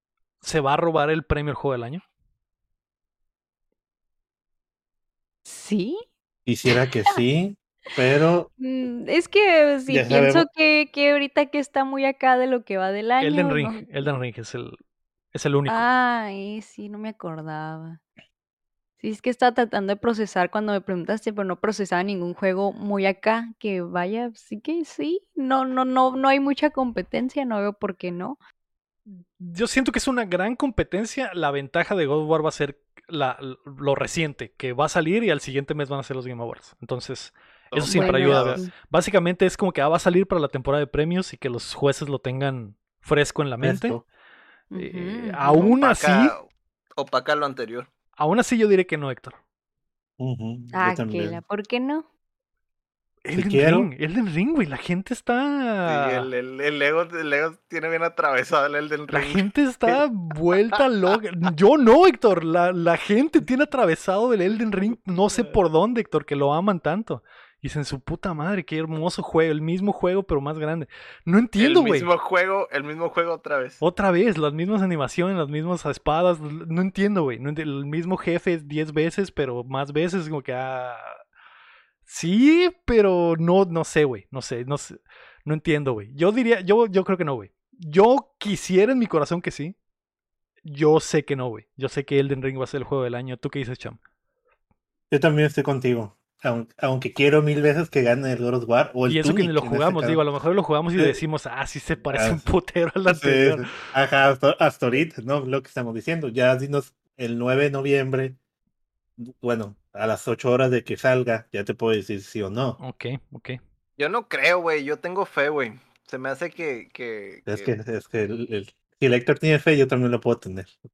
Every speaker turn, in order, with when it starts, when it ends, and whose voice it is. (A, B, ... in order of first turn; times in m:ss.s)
0:00.4-0:02.0 A
0:05.5-0:06.0 B
0:06.5-0:08.5 C
0:06.7-0:07.2 B
0:08.6-0:14.1 B
0:09.9-0:10.5 C
0:13.2-0:14.8 A
0:15.3-0:15.8 A
0:15.7-0:18.0 B
0:19.0-0:28.4 B
0:29.4-0:44.0 A
0:37.7-0:38.6 D
0:37.9-0:38.7 B
0:43.6-0:44.0 C
0:44.7-0:45.7 B
0:44.8-0:46.4 A
0:45.5-0:47.9 D
0:48.2-0:49.4 A
0:50.2-0:51.4 C
0:50.7-0:52.1 B
0:53.2-0:56.3 A
0:53.3-0:53.9 C
0:55.9-0:59.9 D
0:59.1-1:12.1 A
1:11.6-1:13.8 D
1:13.8-1:21.1 A
1:22.1-1:29.8 A
1:30.6-1:34.0 A
1:35.1-1:40.2 C
1:39.1-1:43.8 A
1:42.1-1:42.5 C
1:43.1-1:48.4 C
1:49.2-1:52.8 C
1:52.8-1:53.6 A
1:54.0-1:57.7 D
1:57.5-2:00.8 C